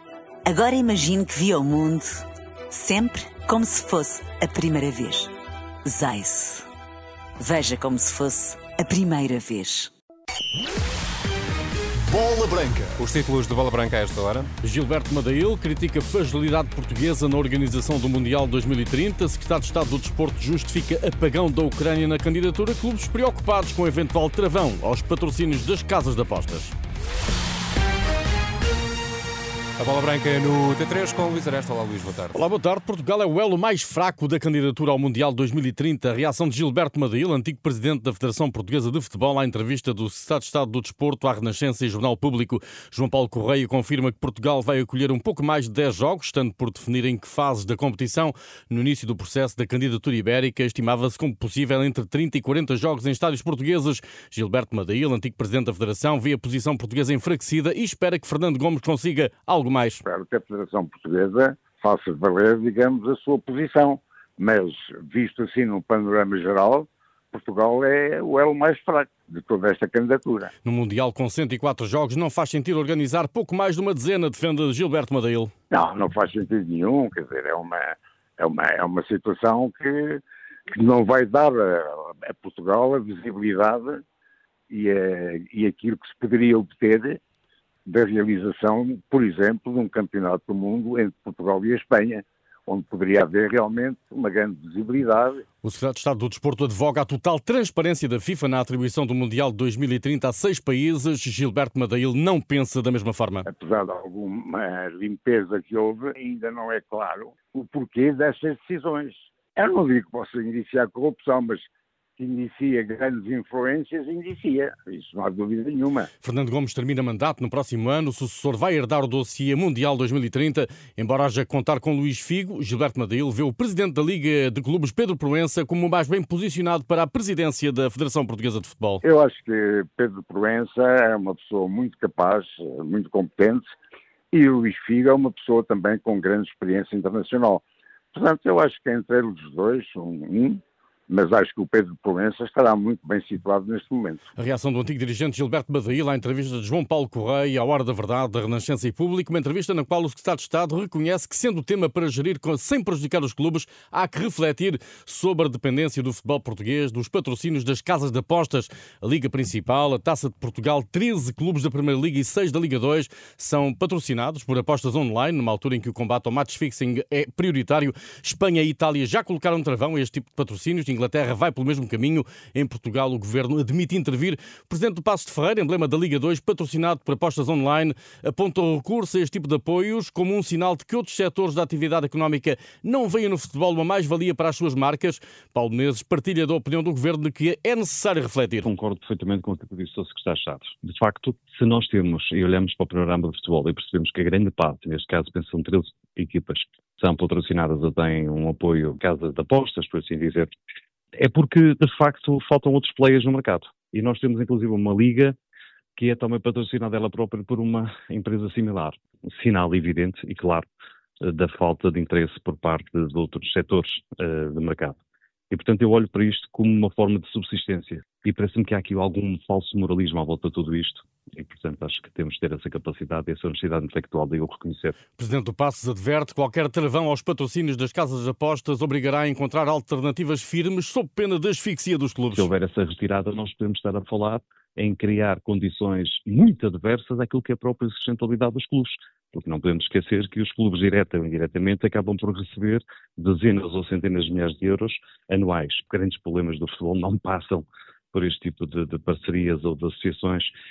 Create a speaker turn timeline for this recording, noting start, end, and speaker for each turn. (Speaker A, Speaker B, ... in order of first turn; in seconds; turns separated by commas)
Speaker A: 0.5-5.3, Speaker A: 5.8-6.7, Speaker A: 7.4-9.9, Speaker B: 12.1-12.8, Speaker C: 12.4-14.5, Speaker B: 14.6-26.7, Speaker C: 29.8-32.4, Speaker B: 32.3-60.0, Speaker D: 60.3-66.8, Speaker D: 67.3-70.4, Speaker B: 70.6-75.5, Speaker D: 76.3-76.9, Speaker D: 78.4-79.9, Speaker D: 82.6-83.8, Speaker D: 85.6-87.0, Speaker D: 88.1-92.1, Speaker D: 92.7-95.2, Speaker B: 95.6-103.5, Speaker D: 103.7-111.5, Speaker D: 112.2-116.0, Speaker B: 116.2-129.0, Speaker D: 129.4-133.6, Speaker D: 134.3-137.5, Speaker D: 138.1-140.5, Speaker D: 141.1-144.1, Speaker B: 144.4-188.7, Speaker E: 188.7-200.5, Speaker E: 201.2-205.3, Speaker E: 205.9-210.7, Speaker E: 211.2-215.0, Speaker E: 215.5-224.9, Speaker B: 225.2-232.5, Speaker E: 232.3-250.5